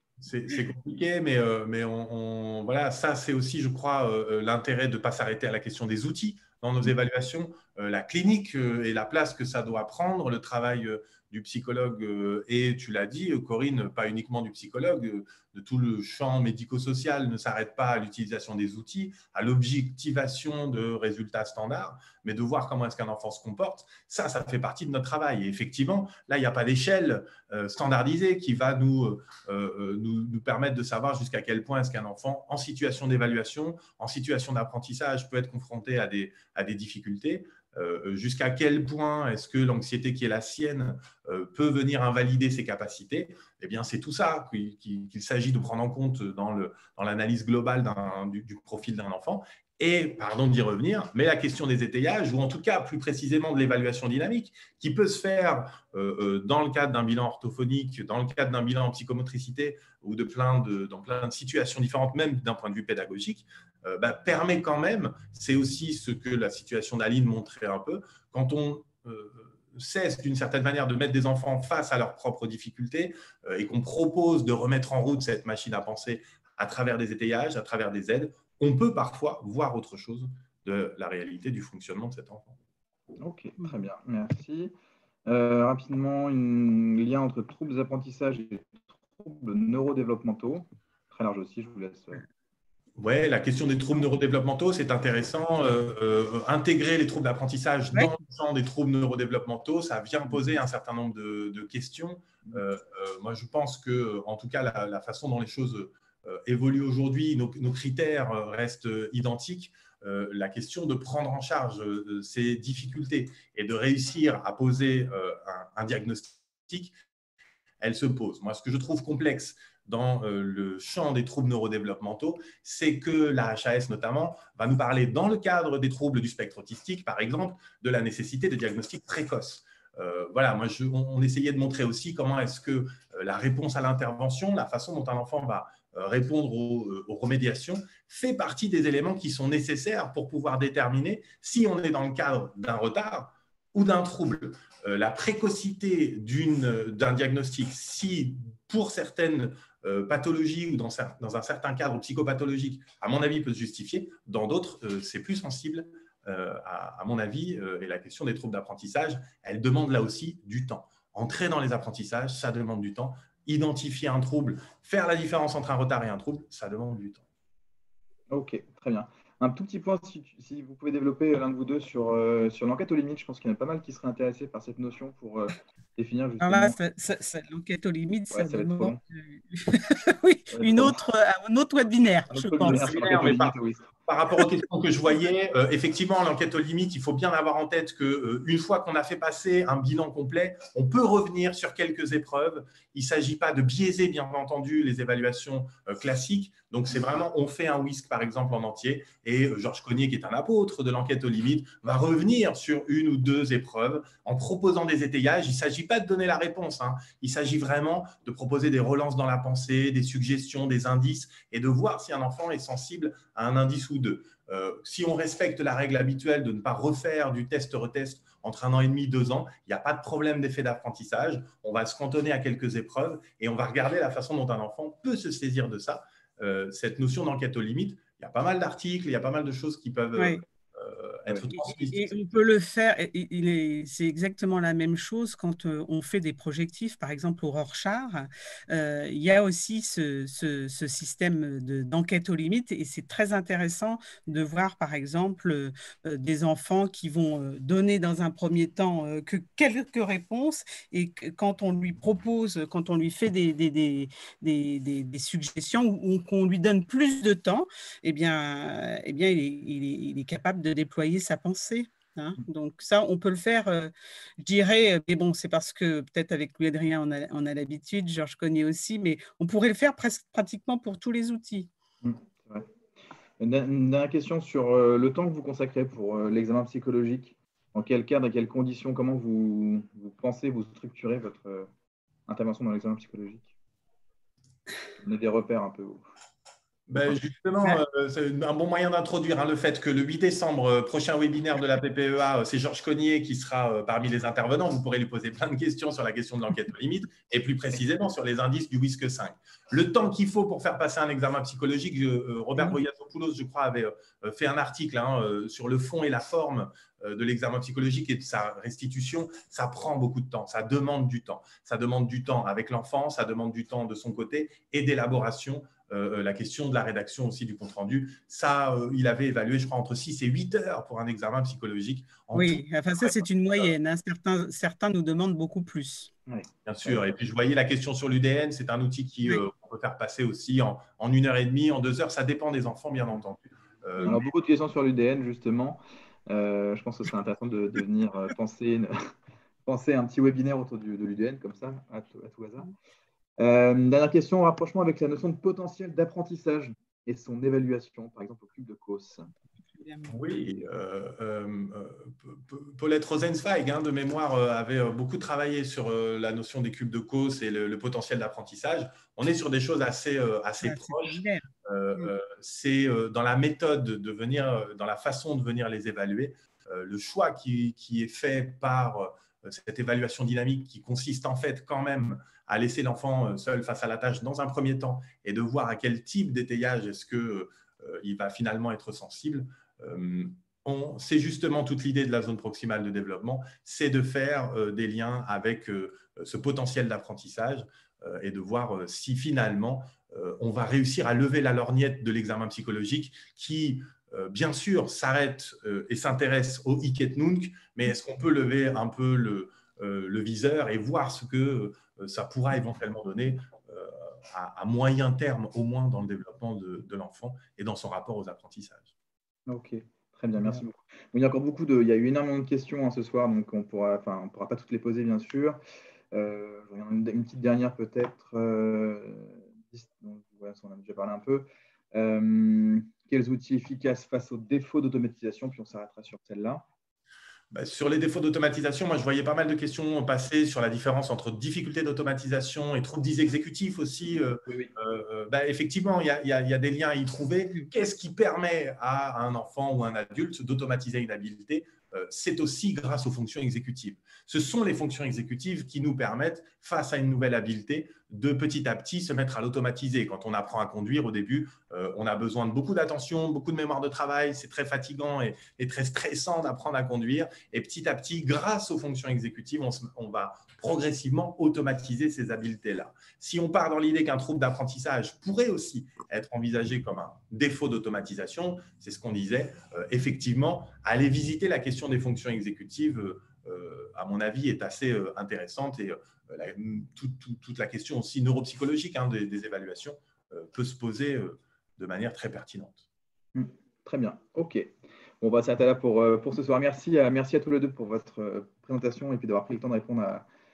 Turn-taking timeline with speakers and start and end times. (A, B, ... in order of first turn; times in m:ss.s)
0:00.2-1:22.6 A
1:23.2-1:24.7 B
1:25.3-1:32.2 B
1:33.0-1:56.9 A
1:57.8-2:47.2 A
2:48.3-2:56.8 B
2:56.4-3:02.9 C
2:58.3-2:59.0 B
3:00.5-3:01.0 B
3:02.3-3:03.9 B
3:02.6-3:03.6 A
3:04.1-3:52.2 A
3:50.2-3:50.4 C
3:51.5-4:31.7 C
4:32.0-4:32.7 B
4:33.4-4:41.7 B
4:42.3-4:43.5 B
4:45.0-4:46.0 B
4:46.9-5:23.7 A
5:22.3-5:26.1 C
5:26.3-5:27.0 B
5:26.6-5:34.2 A
5:34.0-5:38.9 B
5:39.6-5:42.7 B
5:43.4-5:49.3 B
5:49.7-5:50.1 C
5:50.1-6:48.9 A
6:00.6-6:01.4 C
6:49.5-6:55.6 B
6:56.1-7:06.6 B
7:07.5-8:02.8 A
7:14.2-7:14.7 B
8:03.3-8:10.3 B